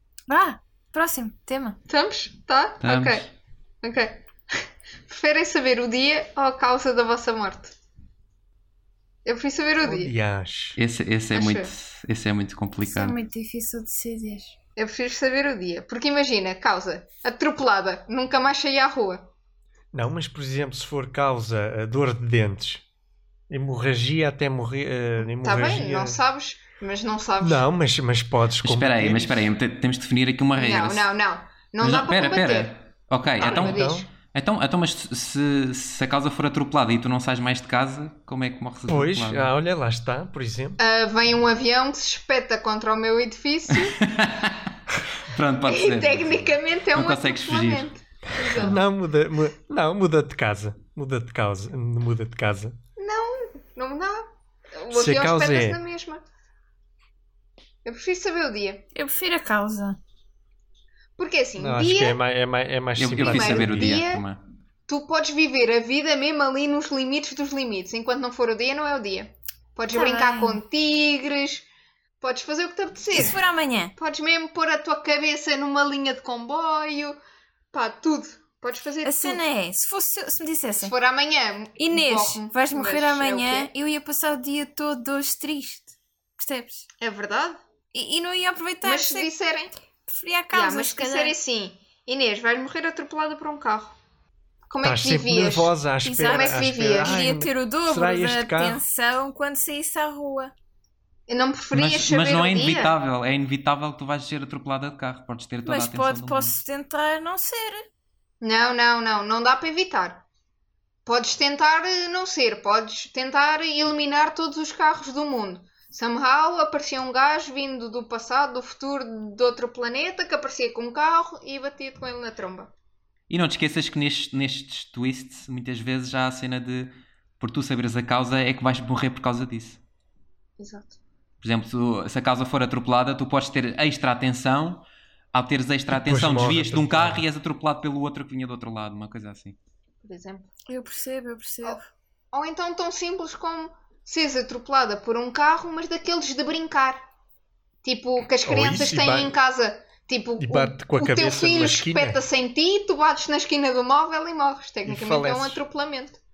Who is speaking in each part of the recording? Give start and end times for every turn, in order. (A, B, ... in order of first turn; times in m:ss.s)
0:00.3-0:01.8 A
0:01.9-0:03.3 B
0:02.8-0:03.3 C
0:03.8-0:04.2 B
0:05.1-0:07.7 B
0:09.2-0:10.1 B
0:09.8-0:10.8 D
0:10.8-0:13.2 C
0:11.3-0:11.7 B
0:12.8-0:14.5 A
0:14.8-0:19.3 B
0:19.9-0:22.8 D
0:23.5-0:26.2 D
0:25.4-0:27.6 B
0:27.4-0:29.5 D
0:28.6-0:31.1 C
0:30.6-0:32.7 B
0:31.8-0:39.5 C
0:33.4-0:34.1 B
0:33.4-0:34.1 D
0:38.9-0:40.8 D
0:40.8-0:44.0 B
0:43.7-0:47.9 C
0:45.7-0:48.8 B
0:48.4-0:48.8 C
0:48.6-0:52.8 D
0:53.0-0:56.2 B
0:54.9-0:55.8 D
0:57.8-0:58.8 B
0:59.0-1:00.0 A
1:01.2-1:02.2 B
1:01.6-1:04.0 D
1:03.0-1:04.4 C
1:03.2-1:04.2 B
1:04.9-1:11.7 B
1:09.9-1:10.6 A
1:12.2-1:13.4 B
1:13.1-1:14.0 A
1:14.0-1:17.2 B
1:17.7-1:19.4 B
1:19.0-1:20.9 A
1:20.8-1:23.7 B
1:21.8-1:26.9 A
1:27.0-1:27.6 B
1:27.9-1:29.3 A
1:28.8-1:29.7 B
1:30.1-1:31.4 A
1:30.5-1:34.0 B
1:34.7-1:35.7 B
1:34.8-1:38.8 D
1:36.0-1:40.5 A
1:36.2-1:37.2 B
1:41.3-1:42.9 B
1:41.7-1:46.5 C
1:45.6-1:47.9 A
1:48.4-1:50.2 B
1:51.1-2:02.7 B
2:03.3-2:09.8 C
2:10.6-2:11.0 B
2:11.4-2:19.6 C
2:15.9-2:17.2 D
2:20.0-2:20.5 B
2:20.7-2:21.9 A
2:22.3-2:27.0 B
2:27.8-2:36.2 B
2:28.4-2:29.4 D
2:30.4-2:32.2 D
2:34.8-2:35.6 D